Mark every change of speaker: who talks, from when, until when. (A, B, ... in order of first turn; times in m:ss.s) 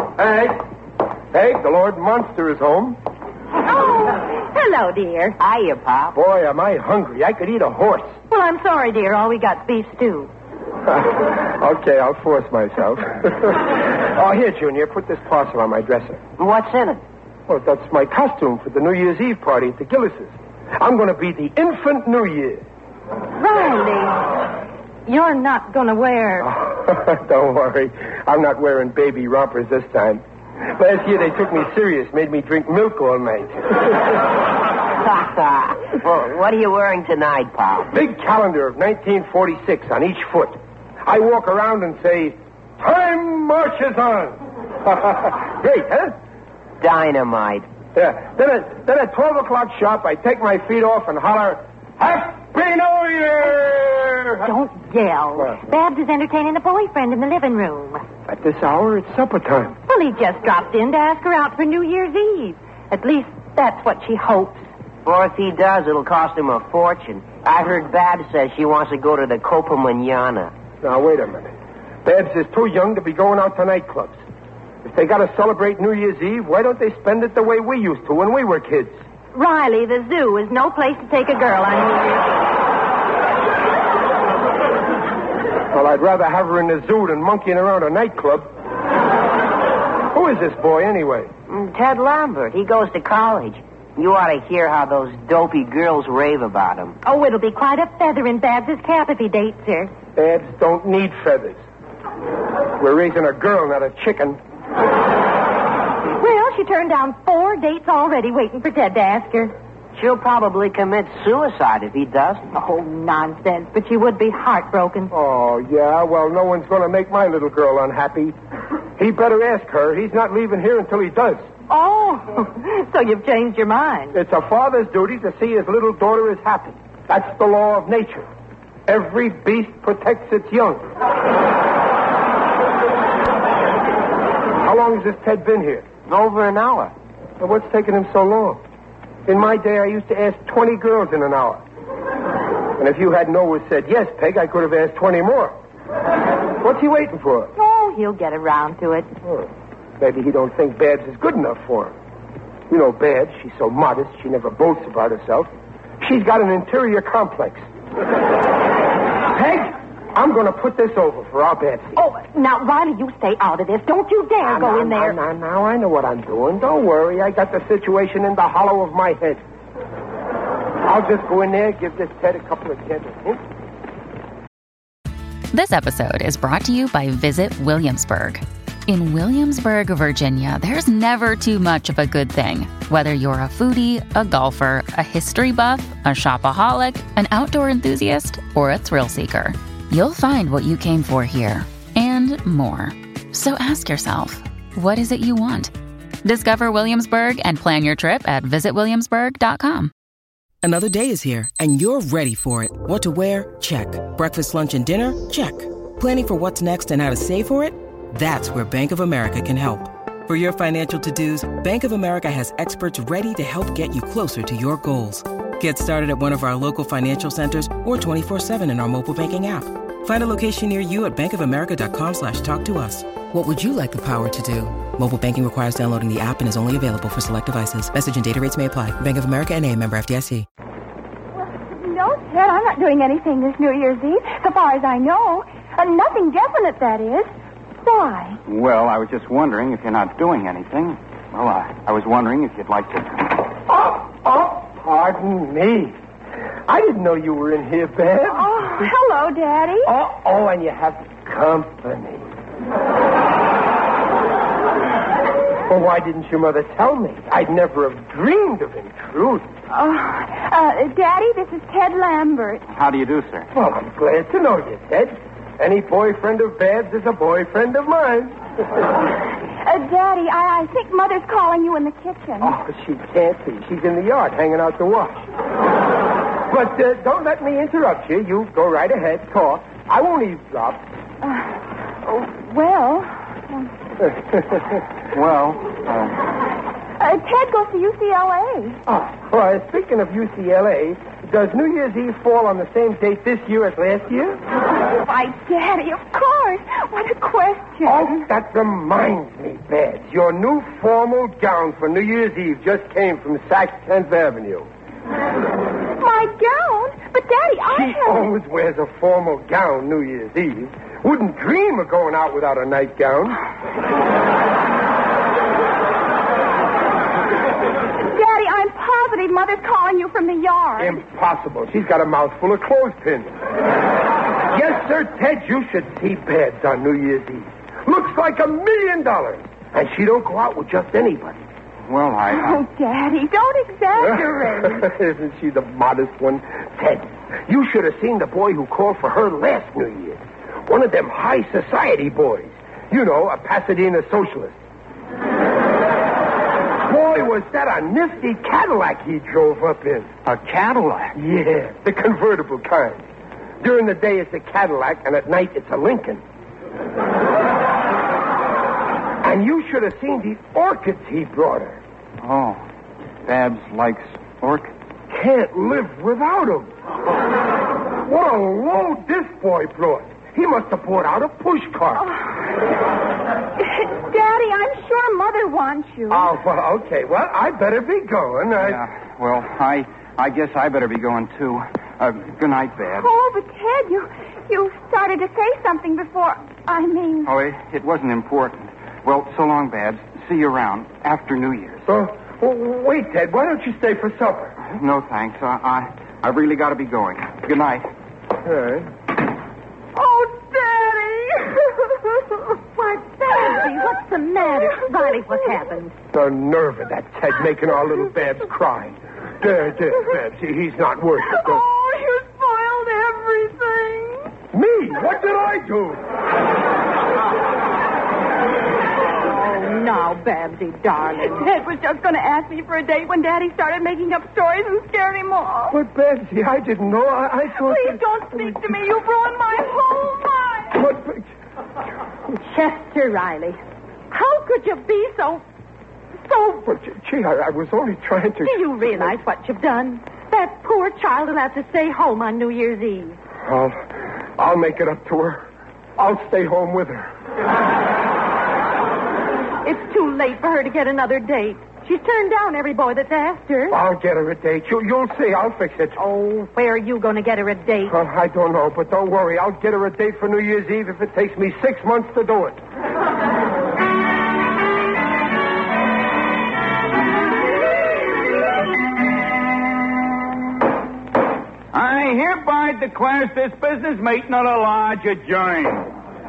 0:00.2-0:00.6 A
0:01.3-0:03.0 A
0:03.6-0:05.4 B
0:05.4-0:06.2 C
0:06.1-0:08.2 A
0:08.3-0:10.3 B
0:10.9-0:16.2 A
0:16.4-0:17.0 C
0:17.5-0:22.6 A
0:23.4-0:24.3 B
0:25.1-0:26.5 B
0:26.4-0:34.2 A
0:35.0-0:37.9 C
0:37.9-0:46.1 A
0:46.8-0:47.6 C
0:48.0-0:54.5 A
0:54.4-0:58.0 B
0:58.3-0:59.8 A
0:59.9-1:04.6 B
1:05.0-1:10.5 C
1:10.8-1:11.5 A
1:12.0-1:14.2 A
1:14.8-1:19.0 A
1:19.3-1:22.4 B
1:25.7-1:28.5 A
1:30.1-1:31.3 A
1:31.5-1:37.0 C
1:37.0-1:39.9 B
1:40.2-1:41.6 A
1:42.8-1:44.4 A
1:46.2-1:49.5 B
1:50.0-1:52.4 C
1:52.5-1:55.1 B
1:55.1-1:58.4 A
1:59.0-2:01.5 A
2:01.7-2:04.2 B
2:04.1-2:08.3 A
2:08.9-2:10.9 A
2:14.6-2:15.9 A
2:16.1-2:16.9 C
2:17.4-2:18.6 A
2:19.3-2:21.6 A
2:22.8-2:25.6 A
2:26.6-2:27.5 A
2:27.6-2:29.1 B
2:30.0-2:32.0 A
2:32.7-2:37.6 A
2:39.3-2:42.0 A
2:42.0-2:45.2 B
2:44.4-2:49.4 A
2:50.8-2:53.4 A
2:55.5-3:15.7 D
3:16.2-3:19.9 D
3:20.6-3:50.5 E
3:51.6-3:57.3 F
3:57.8-3:58.4 F
3:58.5-4:03.4 G
4:03.7-4:06.0 A
4:06.7-4:08.5 A
4:08.2-4:09.9 F
4:09.8-4:12.3 A
4:15.7-4:19.5 A
4:19.7-4:22.6 F
4:22.7-4:23.5 G
4:23.5-4:28.4 A
4:29.6-4:32.6 F
4:32.4-4:35.2 A
4:36.5-4:40.9 A
4:41.2-4:43.7 F
4:44.0-4:44.7 A
4:45.1-4:46.2 G
4:47.0-4:48.8 F
4:48.9-4:54.4 A
4:55.0-4:58.2 F
4:57.8-5:04.7 A
5:06.0-5:08.3 F
5:07.7-5:13.4 A
5:18.0-5:21.0 F
5:20.8-5:23.4 A
5:24.5-5:31.4 A
5:31.9-5:32.6 G
5:32.3-5:34.9 F
5:34.0-5:44.6 A
5:46.8-5:50.1 A
5:50.2-5:51.2 G
5:51.2-5:53.0 A
5:53.6-5:56.2 A
5:59.2-6:01.8 A
6:02.2-6:02.6 G
6:03.2-6:04.7 G
6:05.1-6:06.7 A
6:08.0-6:12.1 A
6:12.0-6:12.4 F
6:13.6-6:16.3 F
6:16.1-6:18.8 A
6:18.6-6:23.1 G
6:22.9-6:27.3 F
6:27.2-6:31.9 G
6:31.9-6:34.6 A
6:34.6-6:37.9 G
6:38.4-6:38.9 A
6:40.0-6:43.6 F
6:43.2-6:45.9 B
6:46.1-6:51.6 A
6:51.2-6:54.3 F
6:54.5-6:56.0 A
6:59.3-7:01.5 B
7:01.2-7:05.8 F
7:05.7-7:08.8 A
7:07.5-7:10.8 F
7:10.7-7:11.2 A
7:12.3-7:13.6 B
7:14.1-7:15.4 B
7:16.3-7:19.2 A
7:18.4-7:23.2 B
7:23.4-7:23.9 A
7:24.4-7:25.5 A
7:26.0-7:27.1 A
7:29.6-7:33.8 B
7:33.7-7:36.0 A
7:36.0-7:38.0 B
7:37.9-7:42.6 A
7:51.7-7:55.9 H